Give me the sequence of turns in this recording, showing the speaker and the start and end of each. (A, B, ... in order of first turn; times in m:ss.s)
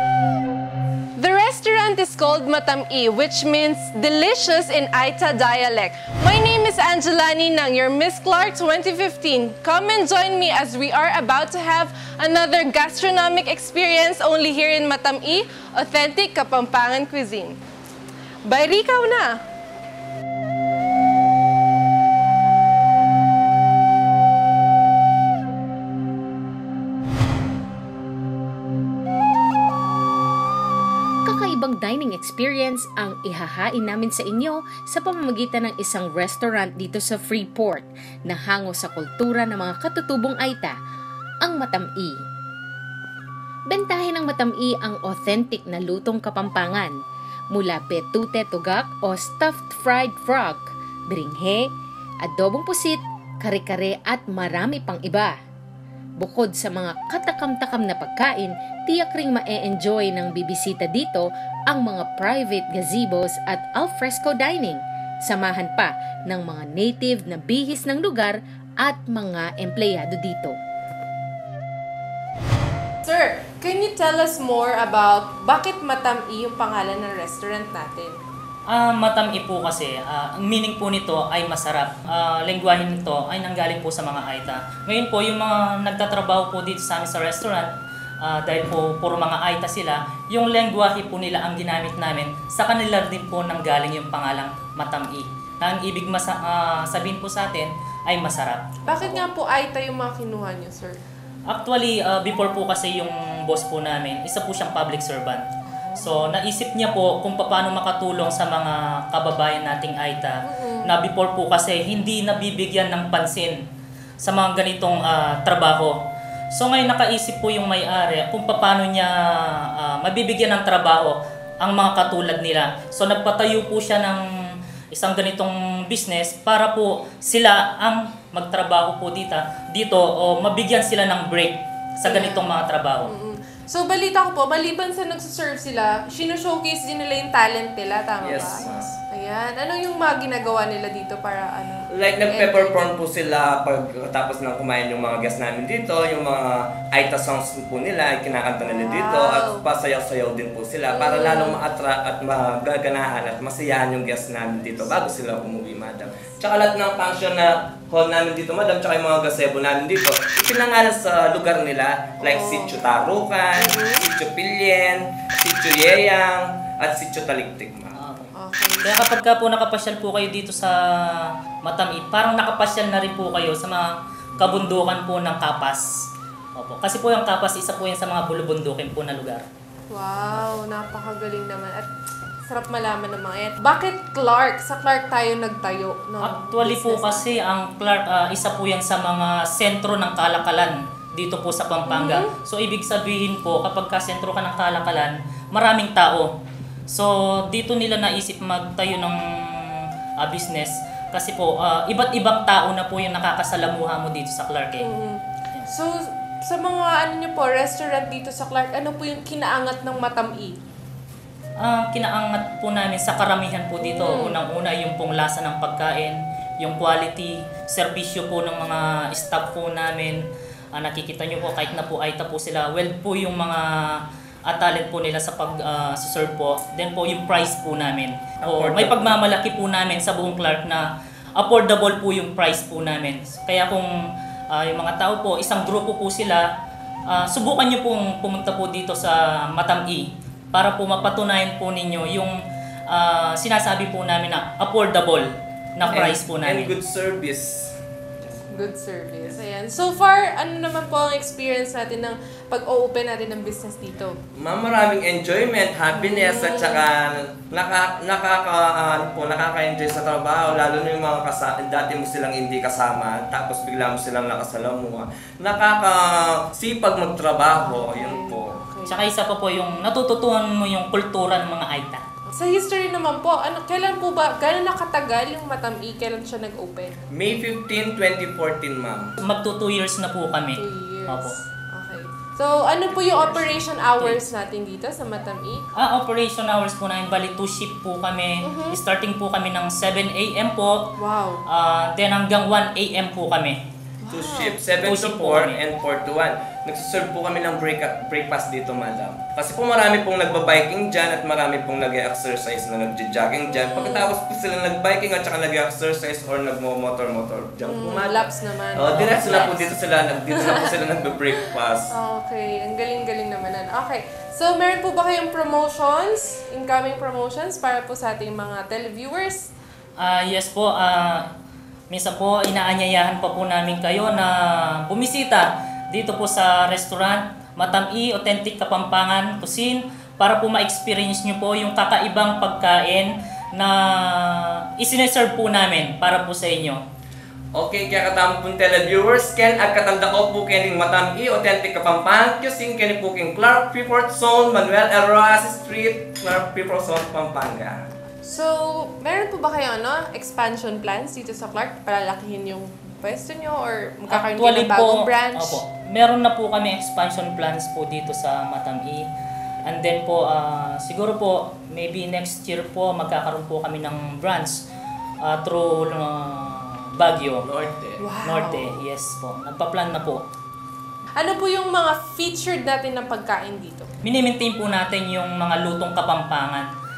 0:01.2-0:17.6 A
0:18.4-0:19.4 A
0:31.2-0:40.8 B
0:41.4-0:42.2 B
0:43.7-0:47.0 B
0:47.5-0:51.7 B
0:52.2-0:55.3 B
0:56.2-1:10.5 B
1:13.0-1:18.2 A
1:18.7-1:27.7 C
1:28.2-1:39.2 C
1:38.8-1:41.0 A
1:41.5-1:45.4 C
1:45.7-1:46.1 A
1:46.0-1:53.6 C
1:50.4-1:50.9 A
1:54.2-1:56.0 C
1:56.5-2:04.2 C
2:04.9-2:13.1 C
2:12.0-2:12.5 A
2:13.0-2:22.9 A
2:18.2-2:18.9 D
2:21.9-2:48.0 D
2:28.6-2:29.6 A
2:30.9-2:31.6 A
2:42.2-2:42.8 A
2:43.6-2:44.1 A
2:47.9-2:55.9 C
2:48.4-2:49.0 A
2:54.4-2:54.6 D
2:56.6-2:59.4 C
2:59.9-3:01.9 A
3:02.4-3:07.4 A
3:06.2-3:16.3 C
3:11.9-3:12.3 A
3:16.9-3:24.9 C
3:24.8-3:30.6 A
3:31.6-3:40.2 C
3:33.8-3:34.4 A
3:40.7-3:53.9 C
3:48.4-3:49.2 D
3:54.5-3:56.4 C
3:57.1-4:02.4 C
4:02.9-4:06.7 C
4:05.8-4:08.7 D
4:08.5-4:14.2 A
4:14.4-4:28.6 D
4:15.9-4:16.8 A
4:27.6-4:29.0 A
4:28.9-4:32.0 C
4:32.3-4:37.0 A
4:37.1-4:39.1 D
4:39.2-4:41.4 C
4:40.6-4:45.6 A
4:44.0-4:44.2 C
4:45.7-4:50.9 C
4:48.4-4:48.8 A
4:51.0-4:51.4 A
4:51.5-4:53.6 C
4:54.0-4:54.6 A
4:54.1-5:11.9 D
4:54.8-4:55.6 C
5:03.5-5:04.1 A
5:07.6-5:09.7 A
5:08.9-5:09.6 C
5:10.3-5:10.8 A
5:11.9-5:19.5 A
5:20.0-5:21.2 C
5:21.9-5:36.8 C
5:37.5-5:47.8 D
5:48.2-5:55.6 A
5:54.1-5:59.0 C
5:59.6-6:04.6 C
6:05.2-6:07.4 C
6:07.4-6:08.1 D
6:08.0-6:08.8 A
6:08.2-6:10.2 C
6:11.2-6:13.9 A
6:14.0-6:16.7 C